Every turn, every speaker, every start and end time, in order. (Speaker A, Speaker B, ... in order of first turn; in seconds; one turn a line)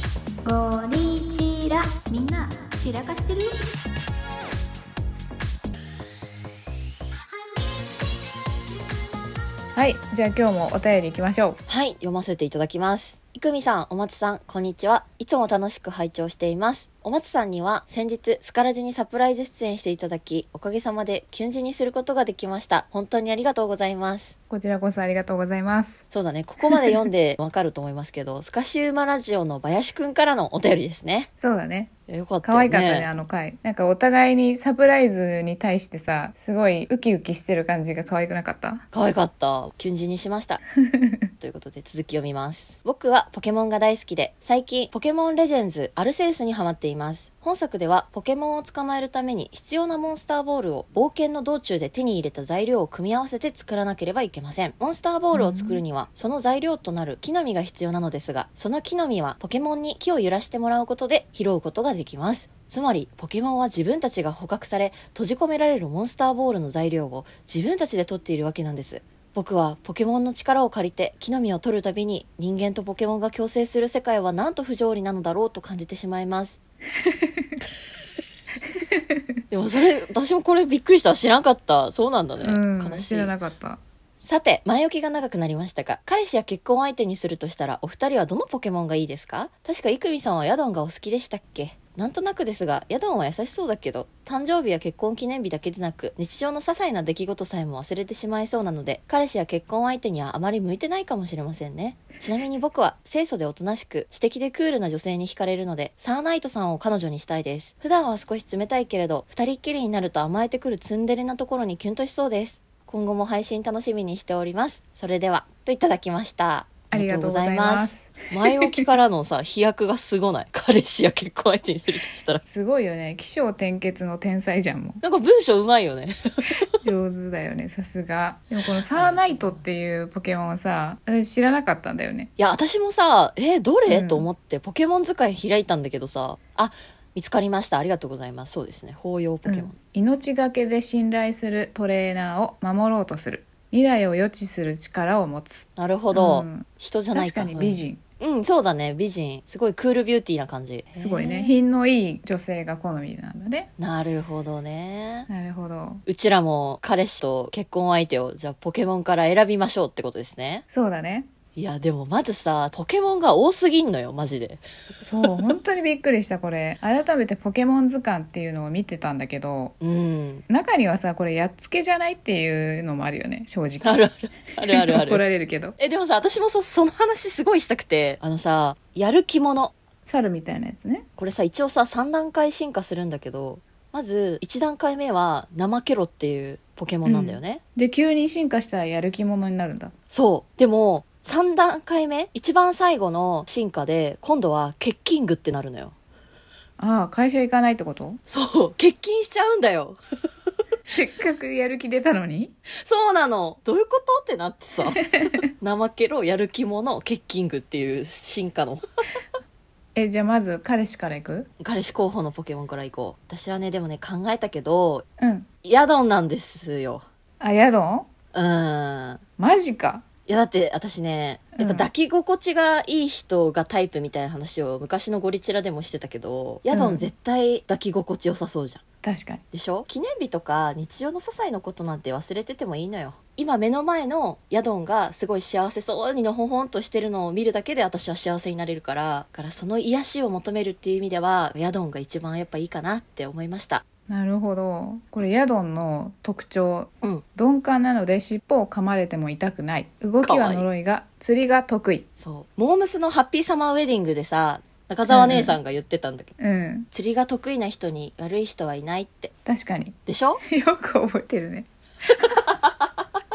Speaker A: 0.4-3.6
Speaker B: 9.7-11.6
Speaker C: 11.7-24.4
Speaker B: 24.5-26.0
Speaker C: 26.1-31.3
Speaker B: 31.4-31.9
Speaker C: 32.1-33.1
Speaker B: 32.4-38.9
Speaker C: 38.9-40.6
Speaker B: 40.8-41.2
Speaker C: 41.4-76.6
Speaker B: 55.3-55.8
Speaker B: 77.1-77.5
Speaker B: 78.8-79.2
Speaker C: 79.5-83.3
Speaker B: 82.4-83.8
Speaker C: 84.2-122.4
Speaker B: 116.9-118.8
Speaker B: 122.5-125.0
Speaker C: 125.0-126.7
Speaker B: 126.8-132.3
Speaker C: 128.9-129.6
Speaker C: 132.4-139.8
Speaker B: 133.9-134.2
Speaker B: 139.4-148.0
Speaker C: 145.8-151.6
Speaker B: 151.0-153.7
Speaker C: 153.8-155.3
Speaker B: 155.3-156.0
Speaker C: 156.1-160.7
Speaker B: 160.7-161.3
Speaker C: 161.6-164.6
Speaker B: 165.0-169.7
Speaker C: 169.8-170.4
Speaker B: 170.5-174.0
Speaker C: 173.8-175.2
Speaker B: 174.7-175.8
Speaker C: 175.8-179.7
Speaker B: 180.1-181.1
Speaker C: 181.2-187.6
Speaker B: 187.1-189.9
Speaker C: 190.1-195.9
Speaker B: 196.8-198.2
Speaker C: 198.3-200.0
Speaker B: 200.9-202.5
Speaker C: 202.8-208.8
Speaker B: 205.1-205.4
Speaker B: 209.9-211.5
Speaker C: 211.6-215.1
Speaker B: 215.2-215.5
Speaker C: 215.6-217.1
Speaker B: 217.4-218.1
Speaker C: 218.3-219.2
Speaker B: 219.4-220.1
Speaker C: 220.3-228.8
Speaker B: 221.6-221.9
Speaker B: 226.7-227.1
Speaker B: 229.0-229.4
Speaker C: 229.5-243.8
Speaker B: 244.1-252.1
Speaker C: 250.2-250.7
Speaker C: 252.2-256.4
Speaker B: 255.1-255.6
Speaker B: 256.4-256.9
Speaker C: 256.9-259.3
Speaker B: 259.4-262.5
Speaker C: 260.1-260.4